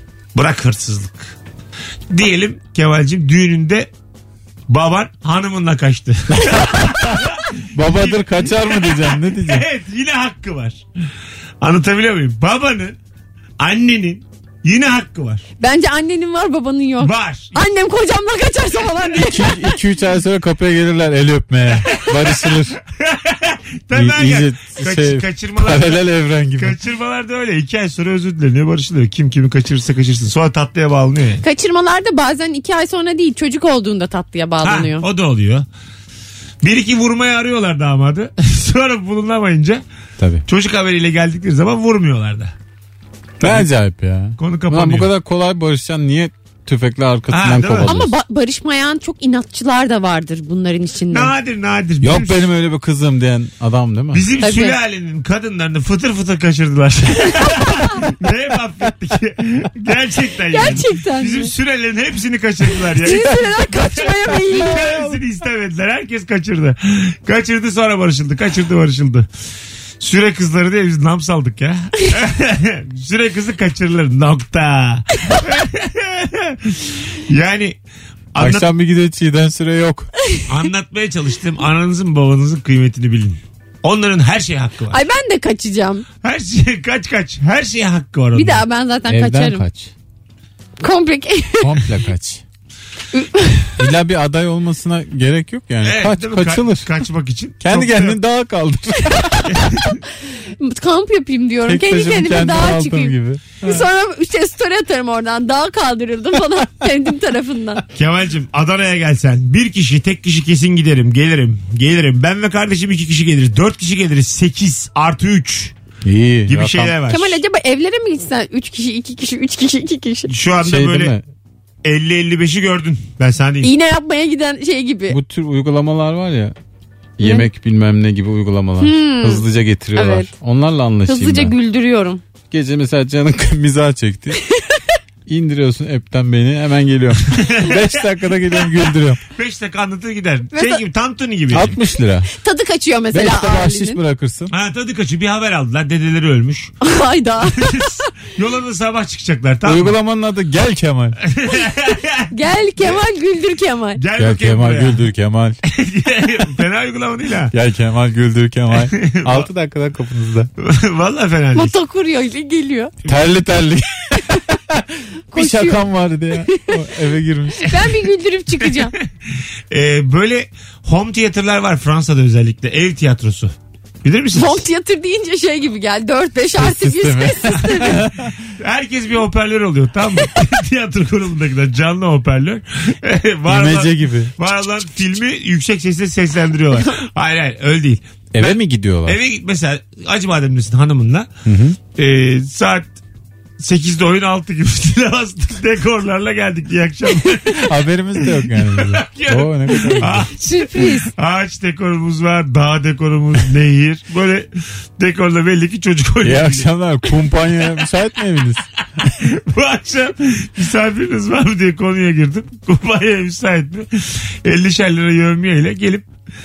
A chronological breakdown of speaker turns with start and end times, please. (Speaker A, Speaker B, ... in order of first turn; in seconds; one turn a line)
Speaker A: 0.3-1.4
Speaker A: 2.1-3.9
Speaker A: 4.7-10.8
Speaker B: 6.3-9.6
Speaker A: 11.6-13.0
Speaker A: 13.6-15.5
Speaker C: 15.6-19.8
Speaker A: 17.0-17.6
Speaker B: 19.2-22.8
Speaker A: 22.0-26.0
Speaker B: 23.9-26.8
Speaker A: 26.6-31.4
Speaker C: 31.4-35.1
Speaker A: 34.6-35.7
Speaker A: 36.6-39.8
Speaker B: 40.2-40.4
Speaker A: 40.5-42.5
Speaker A: 43.4-43.7
Speaker B: 43.4-48.1
Speaker A: 44.4-45.1
Speaker A: 47.3-48.0
Speaker C: 47.9-51.3
Speaker A: 51.1-52.5
Speaker B: 52.0-54.2
Speaker A: 54.1-69.3
Speaker C: 54.4-54.8
Speaker C: 57.4-57.9
Speaker C: 60.5-61.5
Speaker C: 63.0-65.1
Speaker A: 70.0-77.8
Speaker A: 78.3-78.7
Speaker B: 78.4-80.1
Speaker A: 80.5-85.0
Speaker C: 84.9-86.0
Speaker A: 86.2-88.7
Speaker C: 88.3-89.7
Speaker B: 89.1-89.9
Speaker C: 90.8-91.9
Speaker B: 91.6-92.4
Speaker C: 93.1-93.9
Speaker B: 93.8-97.0
Speaker A: 95.8-98.2
Speaker B: 97.6-99.8
Speaker C: 99.1-99.5
Speaker A: 99.5-100.0
Speaker C: 100.6-107.8
Speaker B: 101.7-103.9
Speaker A: 108.0-115.8
Speaker B: 116.0-117.0
Speaker A: 116.5-117.4
Speaker C: 117.1-120.3
Speaker A: 120.3-121.2
Speaker B: 120.6-121.2
Speaker A: 121.8-123.7
Speaker C: 123.6-125.2
Speaker B: 125.1-126.6
Speaker B: 127.2-131.6
Speaker C: 127.2-127.5
Speaker C: 128.8-130.3
Speaker C: 131.1-132.2
Speaker B: 132.5-134.4
Speaker C: 134.5-134.8
Speaker B: 135.3-139.2
Speaker A: 137.3-138.0
Speaker A: 139.3-141.8
Speaker C: 140.5-140.8
Speaker B: 141.5-142.3
Speaker C: 142.4-144.0
Speaker B: 143.1-144.5
Speaker A: 144.5-146.7
Speaker C: 146.8-148.1
Speaker A: 147.6-150.0
Speaker B: 149.6-151.2
Speaker A: 151.2-153.0
Speaker C: 152.3-154.0
Speaker A: 154.0-155.1
Speaker B: 154.2-155.6
Speaker A: 155.6-157.5
Speaker B: 157.5-160.5
Speaker A: 158.8-159.5
Speaker A: 160.6-161.7
Speaker C: 161.6-162.9
Speaker B: 163.1-167.8
Speaker C: 165.3-166.8
Speaker C: 167.6-168.9
Speaker A: 169.0-173.5
Speaker A: 174.0-174.6
Speaker C: 174.3-178.1
Speaker B: 176.6-178.3
Speaker A: 178.5-191.3
Speaker B: 183.5-184.3
Speaker B: 188.3-189.2
Speaker B: 191.4-191.8
Speaker A: 191.9-192.9
Speaker A: 193.6-206.7
Speaker B: 197.6-200.3
Speaker C: 199.7-201.1
Speaker B: 206.2-208.7
Speaker A: 209.0-216.1